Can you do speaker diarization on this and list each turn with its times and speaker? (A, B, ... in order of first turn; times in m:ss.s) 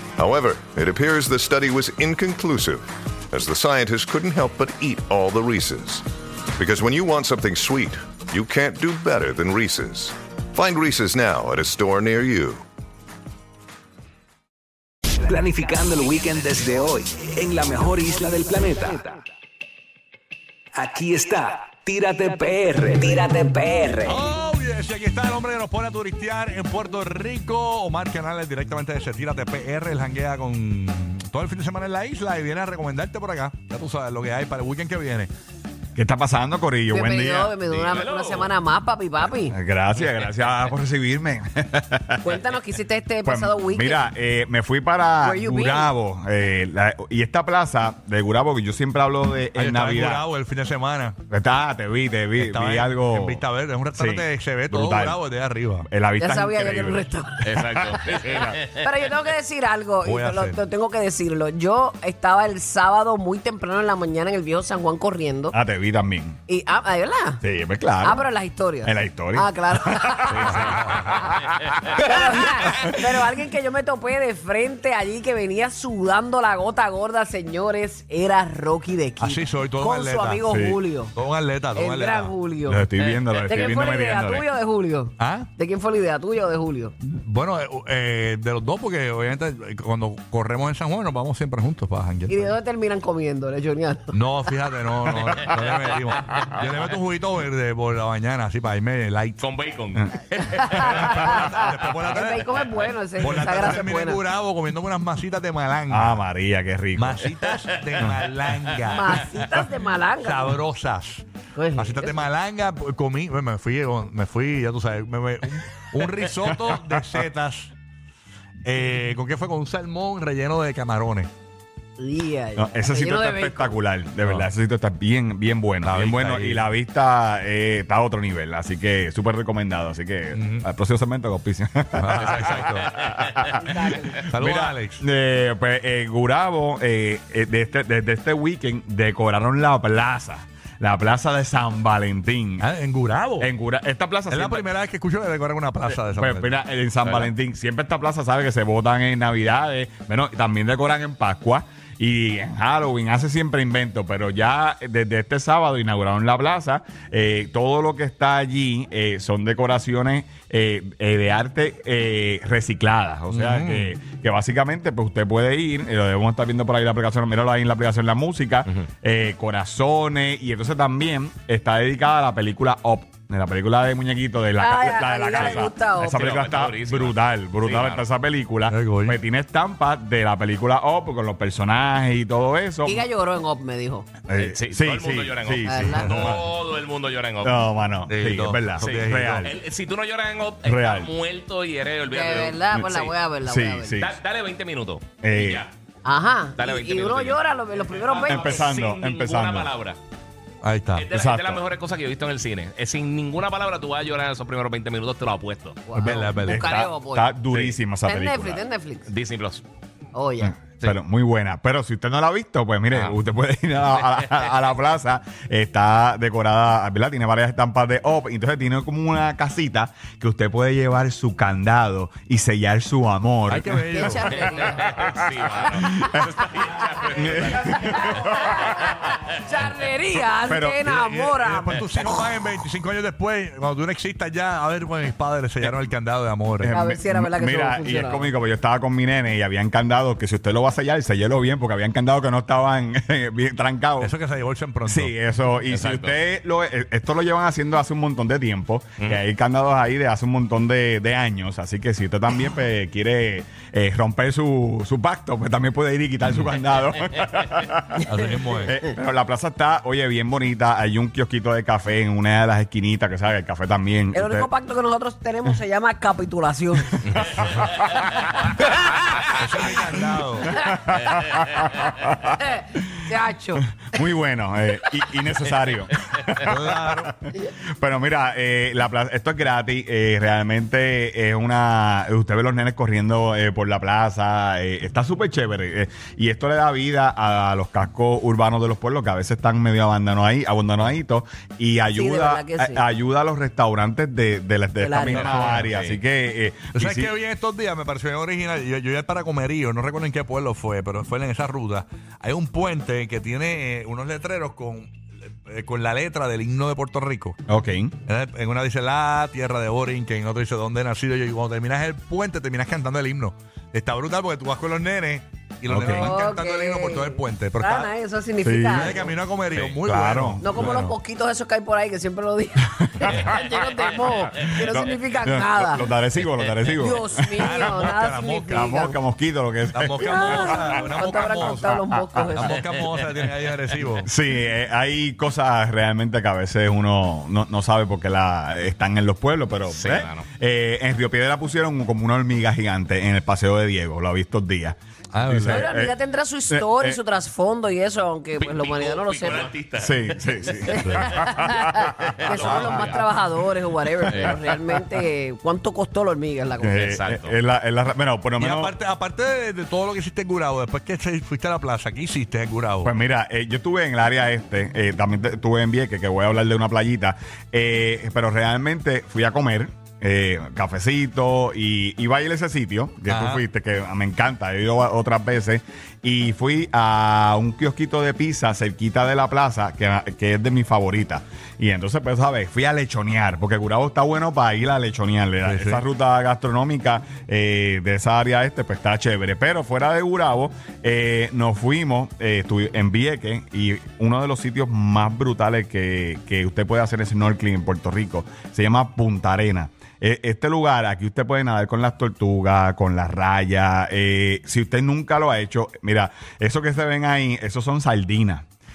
0:00.2-0:12.6 A
0:15.3-0:19.2 B
0:20.8-0:23.2 B
0:24.0-0:35.3 C
0:35.9-0:37.9 D
0:36.9-0:39.6 E
0:37.8-0:38.5 F
0:39.5-0:42.4 D
0:42.2-0:44.1 E
0:43.2-0:50.2 D
0:45.2-0:45.9 E
0:49.5-0:51.2 C
0:51.3-0:53.4 D
0:52.4-0:55.9 C
0:53.9-0:55.2 D
0:55.8-0:58.6 D
0:56.2-0:57.9 E
0:57.4-0:58.8 F
0:58.6-1:05.6 E
1:00.0-1:00.6 C
1:05.5-1:06.4 D
1:06.5-1:07.4 E
1:07.4-1:08.2 D
1:08.0-1:11.2 E
1:08.8-1:12.9 D
1:10.6-1:11.1 C
1:11.8-1:21.1 E
1:19.2-1:20.5 C
1:20.4-1:20.8 D
1:21.1-1:22.3 C
1:21.7-1:22.9 E
1:22.7-1:24.4 D
1:23.4-1:26.9 E
1:25.2-1:25.5 C
1:27.0-1:32.5 C
1:32.3-1:34.2 E
1:34.1-1:39.4 C
1:39.4-1:41.1 F
1:40.5-1:44.2 E
1:40.8-1:42.7 C
1:43.2-1:46.2 C
1:45.9-1:47.3 D
1:47.0-1:49.4 C
1:48.8-1:50.6 E
1:50.2-1:57.7 C
1:51.5-1:52.3 E
1:58.6-2:01.3 C
2:02.0-2:03.8 E
2:02.6-2:13.6 D
2:05.8-2:06.6 C
2:10.4-2:10.6 C
2:12.0-2:12.9 C
2:12.2-2:13.5 F
2:13.6-2:14.2 E
2:14.3-2:15.0 C
2:14.3-2:22.7 D
2:22.6-2:23.5 C
2:23.4-2:24.6 D
2:24.3-2:26.5 C
2:26.0-3:03.1 D
2:43.3-2:43.9 C
2:54.6-2:56.3 E
2:55.4-2:58.0 F
2:58.7-2:59.2 C
3:02.8-3:04.1 E
3:04.3-3:06.5 D
3:04.3-3:07.6 F
3:05.6-3:06.3 E
3:07.4-3:09.5 D
3:08.1-3:09.4 C
3:08.8-3:13.1 F
3:10.6-3:11.1 D
3:12.1-3:14.0 E
3:13.4-3:14.1 D
3:13.9-3:15.7 F
3:15.2-3:15.6 D
3:16.0-3:18.6 E
3:16.6-3:20.0 F
3:18.2-3:19.7 D
3:20.6-3:21.1 C
3:20.9-3:25.8 F
3:21.1-3:21.6 D
3:25.9-3:27.3 E
3:26.0-3:26.6 C
3:26.4-3:28.6 D
3:27.5-3:27.8 F
3:28.0-3:29.1 E
3:29.1-3:29.6 F
3:30.1-3:30.6 E
3:30.4-3:44.3 D
3:32.9-3:33.2 F
3:43.5-3:44.8 C
3:43.9-3:44.9 E
3:44.4-3:49.2 F
3:45.7-3:46.3 D
3:47.1-3:48.6 D
3:47.5-3:51.9 E
3:50.4-3:50.9 D
3:50.9-3:56.8 C
3:56.6-4:04.1 D
3:56.7-3:58.3 E
4:04.0-4:05.1 C
4:04.8-4:24.5 D
4:05.7-4:06.1 F
4:18.0-4:18.7 C
4:24.1-4:27.2 E
4:27.0-4:27.8 F
4:29.3-4:30.5 C
4:30.6-4:32.3 D
4:32.2-4:33.6 E
4:33.8-4:57.1 D
4:36.4-4:37.2 C
4:51.9-4:52.8 E
4:54.8-4:55.3 E
4:55.1-4:55.7 C
4:55.7-4:56.0 F
4:56.7-5:07.4 C
5:07.5-5:07.9 D
5:08.1-5:17.9 C
5:15.7-5:16.1 D
5:15.9-5:19.1 E
5:18.4-5:19.0 D
5:18.7-5:20.9 C
5:19.8-5:20.4 D
5:20.4-5:25.8 E
5:22.8-5:23.6 D
5:24.2-5:27.7 D
5:26.8-5:29.0 E
5:27.4-5:28.6 C
5:28.5-5:30.8 D
5:29.7-5:31.7 C
5:30.0-5:32.6 E
5:32.2-5:34.1 C
5:34.0-5:45.9 D
5:39.7-5:40.2 F
5:45.1-5:45.6 C
5:45.5-5:49.5 E
5:46.5-5:47.0 D
5:48.4-5:50.5 F
5:49.8-5:52.9 D
5:50.6-5:56.8 E
5:51.9-5:52.6 F
5:54.1-5:54.4 F
5:56.6-5:58.7 D
5:56.8-5:57.3 F
5:58.4-6:02.9 C
6:02.8-6:48.4 D
6:13.1-6:13.4 C
6:25.5-6:25.8 C